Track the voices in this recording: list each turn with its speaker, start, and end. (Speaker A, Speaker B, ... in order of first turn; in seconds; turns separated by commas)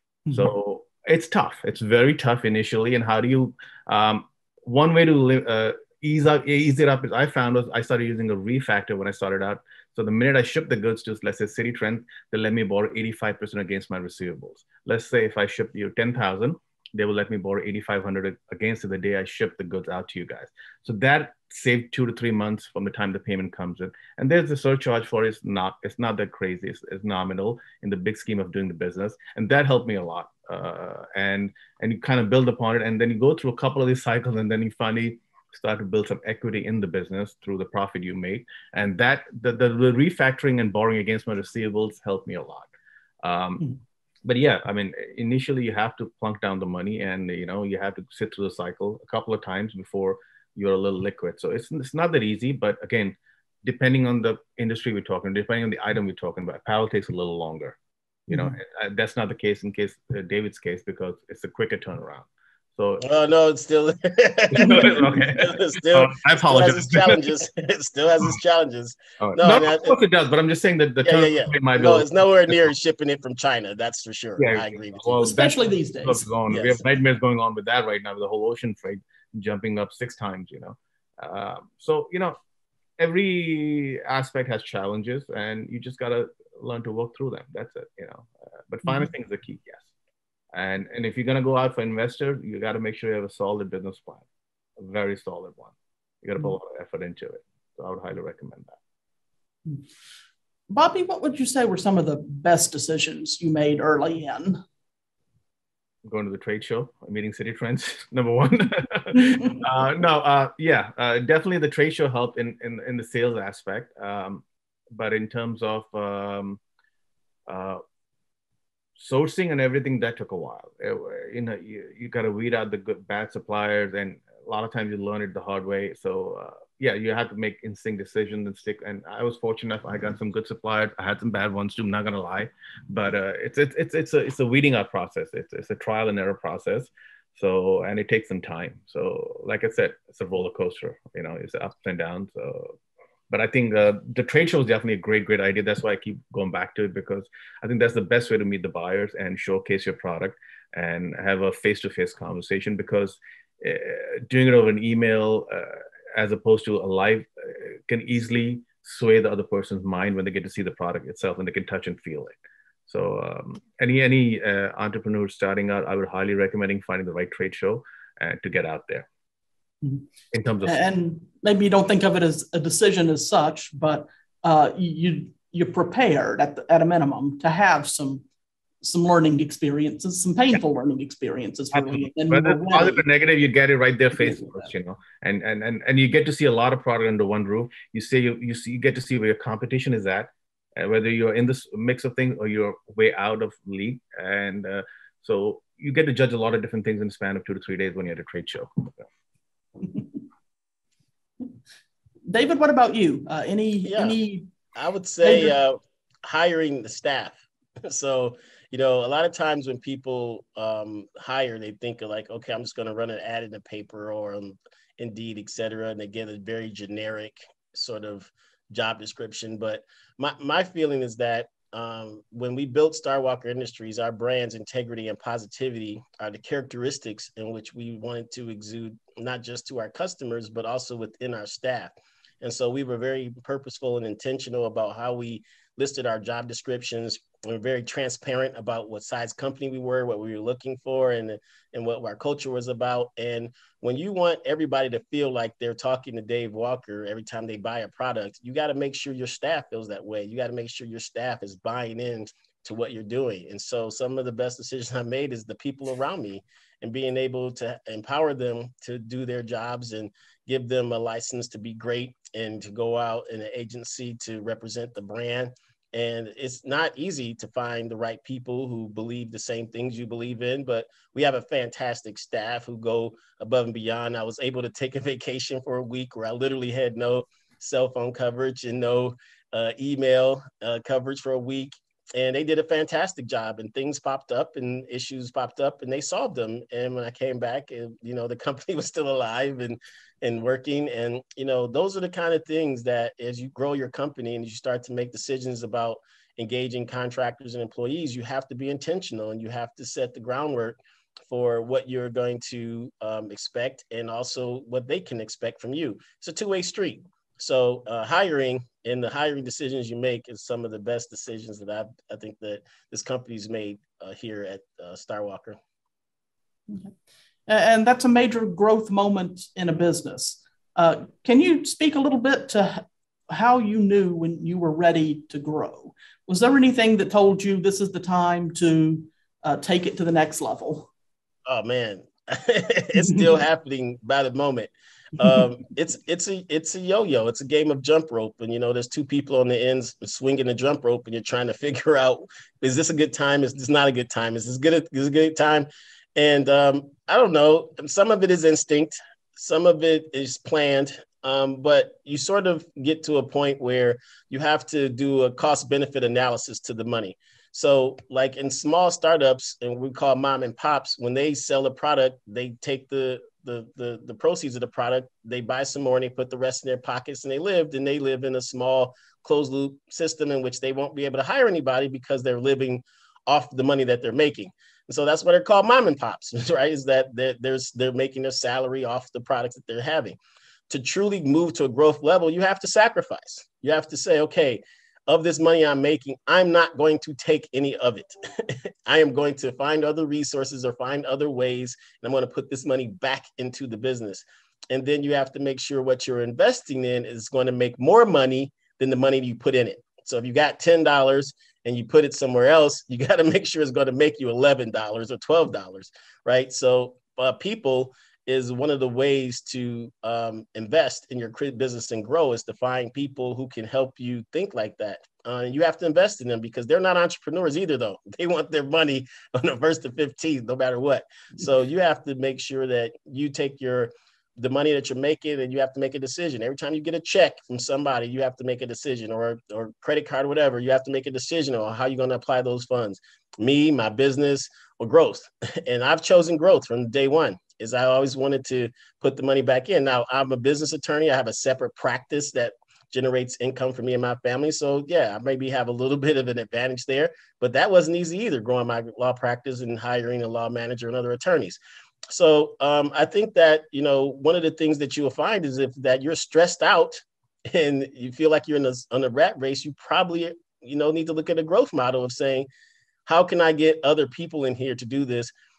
Speaker A: 0.3-42.7, Speaker A: 43.2-43.7, Speaker A: 44.2-57.8, Speaker B: 58.3-58.6, Speaker A: 58.3-63.0, Speaker C: 63.0-70.0, Speaker A: 64.5-67.2, Speaker B: 64.6-64.9, Speaker A: 69.2-72.5, Speaker C: 71.0-75.3, Speaker A: 74.4-82.4, Speaker B: 75.2-76.2, Speaker C: 76.5-76.8, Speaker A: 83.0-89.8, Speaker A: 90.5-94.2, Speaker A: 94.8-98.8, Speaker B: 100.7-104.6, Speaker A: 106.0-116.6, Speaker B: 109.1-109.6, Speaker A: 117.5-117.8, Speaker A: 119.0-142.7, Speaker A: 143.3-162.3, Speaker A: 162.9-169.1, Speaker A: 170.3-170.8, Speaker B: 170.6-178.2, Speaker B: 178.8-183.0, Speaker A: 181.7-198.9, Speaker B: 202.3-204.5, Speaker C: 203.8-204.2, Speaker C: 204.7-315.6, Speaker B: 205.2-205.5, Speaker B: 317.5-330.9, Speaker C: 331.5-380.2, Speaker B: 333.0-333.3, Speaker C: 380.7-451.6, Speaker C: 452.1-462.5, Speaker C: 463.1-465.3